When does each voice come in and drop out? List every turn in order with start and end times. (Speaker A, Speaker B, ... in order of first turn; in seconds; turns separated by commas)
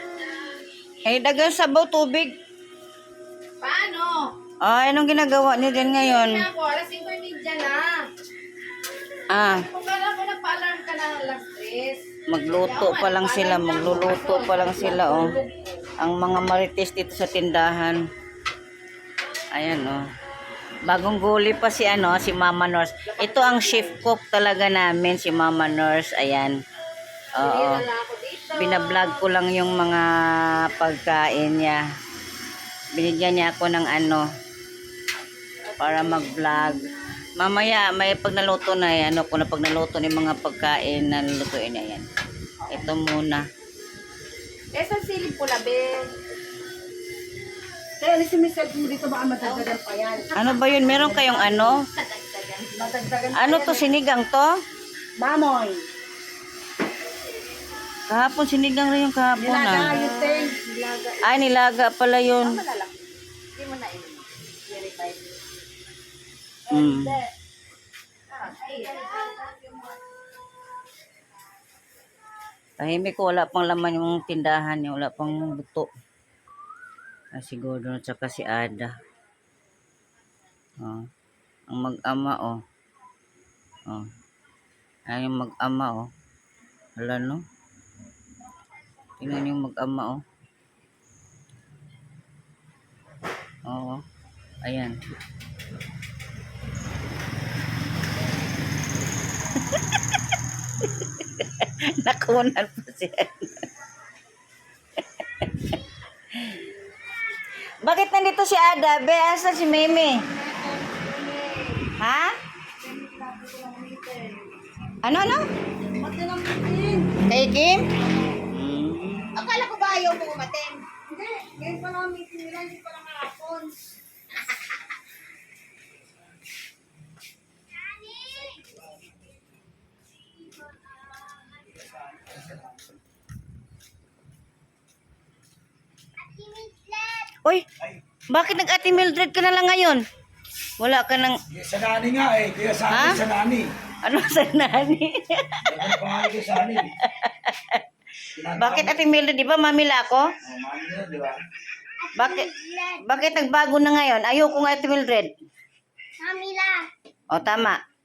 Speaker A: 1.1-2.4, Speaker B: 3.6-4.3, Speaker A: 4.6-6.5, Speaker B: 5.7-8.1, Speaker A: 9.3-9.7, Speaker B: 9.5-15.4, Speaker A: 12.3-15.3, Speaker C: 14.9-15.4, Speaker A: 16.0-18.0, Speaker A: 19.5-20.0, Speaker A: 20.9-26.6, Speaker B: 23.1-23.9, Speaker A: 27.4-27.9, Speaker B: 27.4-29.2, Speaker A: 28.5-31.8, Speaker A: 32.9-34.2, Speaker A: 35.8-42.1, Speaker A: 42.7-43.4, Speaker B: 44.7-46.1, Speaker C: 48.0-51.3, Speaker B: 49.4-49.7, Speaker A: 50.4-51.8, Speaker B: 50.4-52.8, Speaker C: 52.7-53.9, Speaker A: 53.4-54.5, Speaker C: 55.2-55.9, Speaker A: 58.1-60.0, Speaker C: 59.4-60.7, Speaker B: 59.8-61.4, Speaker A: 61.2-62.6, Speaker B: 62.4-65.4, Speaker A: 66.7-67.2, Speaker B: 66.7-67.2, Speaker B: 68.3-69.2, Speaker C: 69.0-69.6, Speaker A: 72.8-75.9, Speaker A: 77.3-78.9, Speaker A: 80.8-81.1, Speaker A: 81.7-82.6, Speaker A: 85.1-86.1, Speaker A: 87.0-87.4, Speaker A: 89.2-90.2, Speaker A: 93.7-94.0, Speaker A: 94.6-95.0, Speaker A: 99.7-100.2, Speaker A: 100.8-103.7, Speaker A: 105.2-105.8, Speaker A: 106.3-106.7, Speaker A: 107.8-110.2, Speaker C: 110.3-111.8, Speaker A: 112.0-112.3, Speaker C: 112.8-114.5, Speaker A: 115.0-115.5, Speaker C: 116.0-117.2, Speaker A: 117.3-117.8, Speaker A: 118.5-119.3, Speaker B: 119.4-120.8, Speaker C: 121.1-123.8, Speaker D: 127.8-128.6, Speaker D: 136.2-137.4, Speaker A: 137.4-137.7, Speaker A: 138.3-140.0, Speaker A: 140.8-141.4, Speaker E: 141.5-143.7, Speaker A: 142.9-143.2, Speaker A: 144.0-146.4, Speaker E: 145.7-146.9, Speaker A: 147.0-147.8, Speaker E: 148.3-149.0, Speaker A: 148.6-150.3, Speaker E: 150.4-151.4, Speaker D: 152.0-153.4, Speaker A: 152.2-155.3, Speaker D: 156.2-156.9, Speaker A: 157.3-157.8